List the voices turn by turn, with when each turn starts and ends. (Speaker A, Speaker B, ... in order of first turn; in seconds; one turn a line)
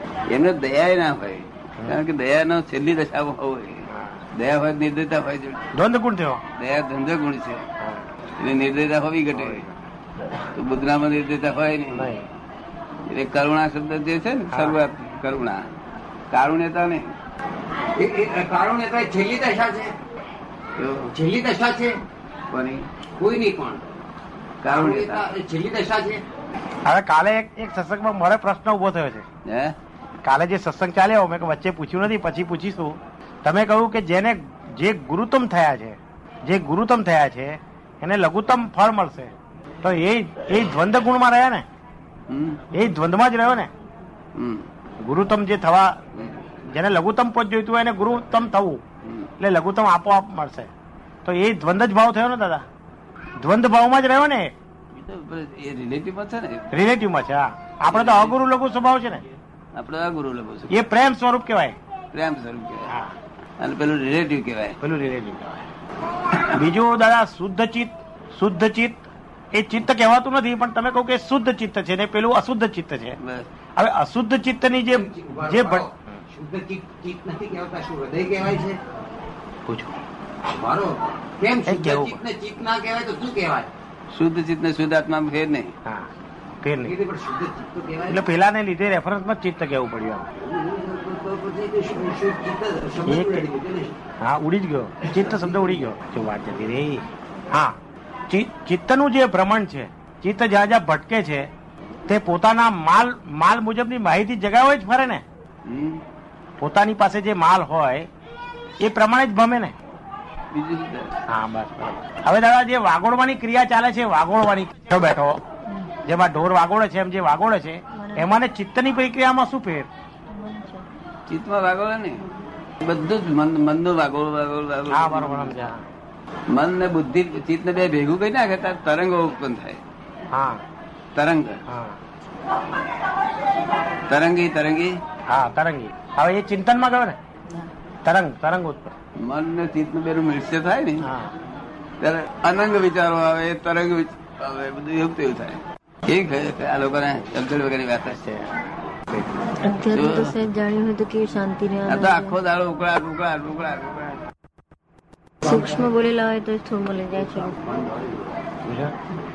Speaker A: 0.3-5.7
Speaker B: 3.9-4.2
Speaker B: 5.8-6.4
Speaker A: 6.6-7.6
Speaker B: 7.8-8.1
Speaker A: 8.4-9.7
Speaker B: 9.3-9.7
Speaker A: 10.6-12.2
Speaker B: 11.9-12.3
Speaker A: 13.1-15.6
Speaker B: 14.5-14.8
Speaker A: 16.3-17.1
Speaker C: 18.0-19.9
Speaker A: 20.8-21.1
Speaker C: 21.1-22.0
Speaker A: 22.5-22.9
Speaker C: 23.2-23.8
Speaker A: 24.6-25.3
Speaker C: 24.7-26.2
Speaker B: 26.9-29.2
Speaker A: 29.5-29.8
Speaker B: 30.2-41.6
Speaker A: 42.3-42.6
Speaker B: 42.7-43.7
Speaker A: 44.4-44.7
Speaker B: 45.0-46.0
Speaker B: 46.6-48.8
Speaker A: 49.0-49.3
Speaker B: 49.4-50.7
Speaker B: 51.2-52.6
Speaker B: 53.4-54.5
Speaker A: 54.9-56.7
Speaker B: 56.7-59.2
Speaker A: 57.9-58.4
Speaker A: 59.8-60.9
Speaker B: 60.7-61.8
Speaker A: 62.1-62.9
Speaker A: 63.6-64.8
Speaker B: 64.8-65.7
Speaker B: 66.5-73.2
Speaker A: 73.2-73.5
Speaker B: 73.8-76.2
Speaker C: 74.9-78.8
Speaker B: 79.7-79.9
Speaker C: 80.5-83.7
Speaker B: 81.7-82.2
Speaker A: 84.1-85.7
Speaker B: 86.6-87.0
Speaker C: 86.8-88.2
Speaker B: 88.1-90.3
Speaker C: 90.4-94.0
Speaker B: 93.0-93.4
Speaker B: 94.2-97.8
Speaker B: 98.3-101.5
Speaker B: 102.1-105.2
Speaker A: 105.7-106.0
Speaker B: 106.6-108.1
Speaker B: 108.8-109.8
Speaker A: 110.5-111.1
Speaker B: 111.3-115.4
Speaker B: 116.0-119.9
Speaker D: 120.3-120.8
Speaker A: 121.3-122.2
Speaker A: 122.8-125.6
Speaker B: 124.9-125.8
Speaker A: 126.5-129.8
Speaker B: 130.3-130.6
Speaker A: 131.2-131.6
Speaker B: 131.7-132.0
Speaker A: 134.1-134.9
Speaker B: 135.3-137.2
Speaker B: 138.1-138.9
Speaker A: 139.2-141.1
Speaker B: 141.0-141.3
Speaker A: 142.0-148.2
Speaker B: 148.1-149.3
Speaker D: 149.6-152.3
Speaker A: 149.9-150.3
Speaker A: 151.9-154.2
Speaker D: 155.4-157.5
Speaker C: 157.1-158.5
Speaker B: 158.7-158.9